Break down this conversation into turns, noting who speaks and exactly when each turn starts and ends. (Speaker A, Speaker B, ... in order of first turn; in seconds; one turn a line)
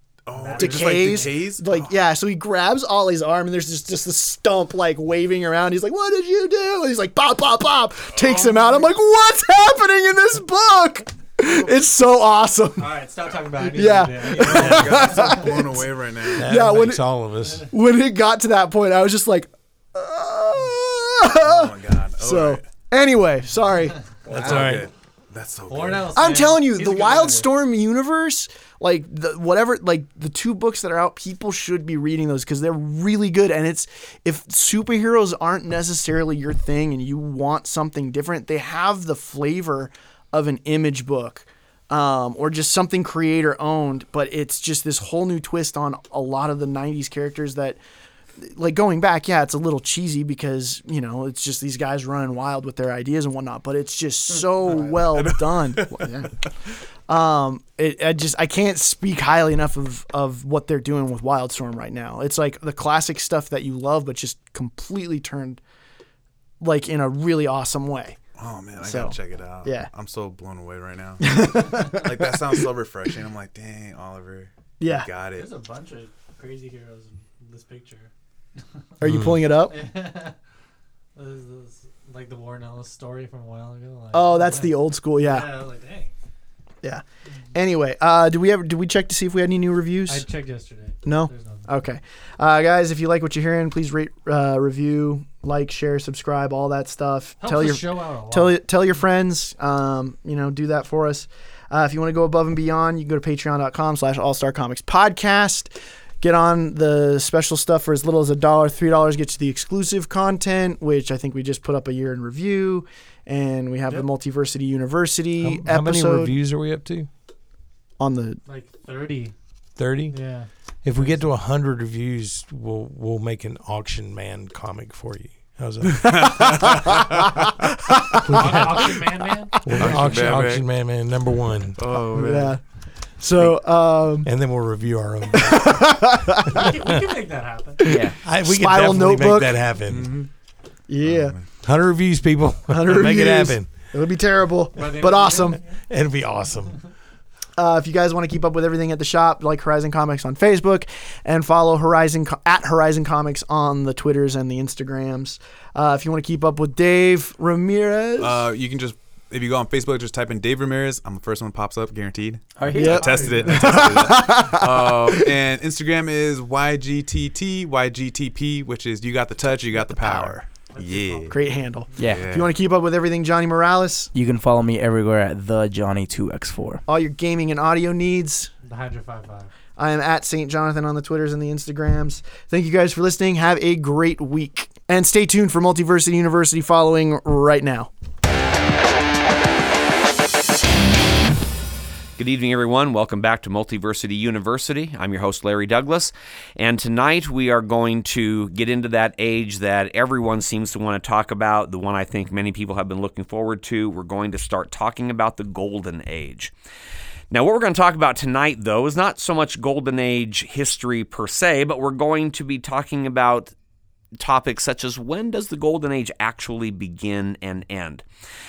Speaker A: 0.2-1.9
Speaker B: 0.3-1.4
Speaker C: 0.6-13.0
Speaker B: 8.2-8.8
Speaker B: 12.8-15.6
Speaker C: 13.6-17.0
Speaker A: 14.3-16.5
Speaker D: 16.4-17.7
Speaker C: 17.7-24.7
Speaker A: 21.4-22.6
Speaker A: 24.3-26.2
Speaker D: 24.3-24.9
Speaker B: 25.7-27.5
Speaker C: 26.1-47.8
Speaker C: 48.4-56.3
Speaker A: 54.7-56.2
Speaker C: 57.1-65.6
Speaker C: 66.6-68.2
Speaker A: 68.4-75.5
Speaker C: 68.8-69.9
Speaker C: 71.2-72.7
Speaker C: 74.8-75.1
Speaker B: 75.3-78.1
Speaker C: 79.0-79.8
Speaker D: 79.0-79.4
Speaker B: 79.7-80.3
Speaker B: 81.1-86.1
Speaker C: 84.1-85.6
Speaker C: 86.8-90.3
Speaker B: 90.1-91.7
Speaker C: 91.0-116.3
Speaker B: 97.4-98.6
Speaker D: 115.4-117.1
Speaker C: 118.0-118.4
Speaker B: 118.5-119.3
Speaker D: 119.8-120.2
Speaker B: 120.1-121.2
Speaker D: 120.8-126.9
Speaker A: 125.9-127.0
Speaker C: 126.2-126.9
Speaker D: 128.2-128.9
Speaker B: 128.2-129.8
Speaker D: 129.6-132.0
Speaker A: 129.8-130.6
Speaker A: 131.8-132.5
Speaker C: 132.1-132.6
Speaker C: 133.2-134.3
Speaker D: 134.2-137.0
Speaker C: 135.4-136.7
Speaker B: 136.5-137.8
Speaker C: 137.8-139.6
Speaker E: 137.8-138.2
Speaker D: 138.2-140.1
Speaker A: 139.9-140.3
Speaker C: 140.9-141.4
Speaker A: 141.0-141.4
Speaker D: 141.6-143.7
Speaker C: 142.7-145.6
Speaker B: 144.7-145.7
Speaker D: 145.9-146.8
Speaker C: 147.6-158.5
Speaker A: 158.2-171.3
Speaker E: 162.6-163.2
Speaker B: 162.7-164.1
Speaker C: 162.7-165.3
Speaker C: 169.8-170.5
Speaker B: 170.7-172.1
Speaker C: 171.3-174.1
Speaker E: 172.0-172.3
Speaker A: 172.0-172.5
Speaker E: 174.1-176.8
Speaker C: 176.9-178.5
Speaker B: 178.6-179.5
Speaker C: 179.8-187.9
Speaker F: 192.2-206.5
Speaker F: 207.3-213.5
Speaker F: 214.2-218.0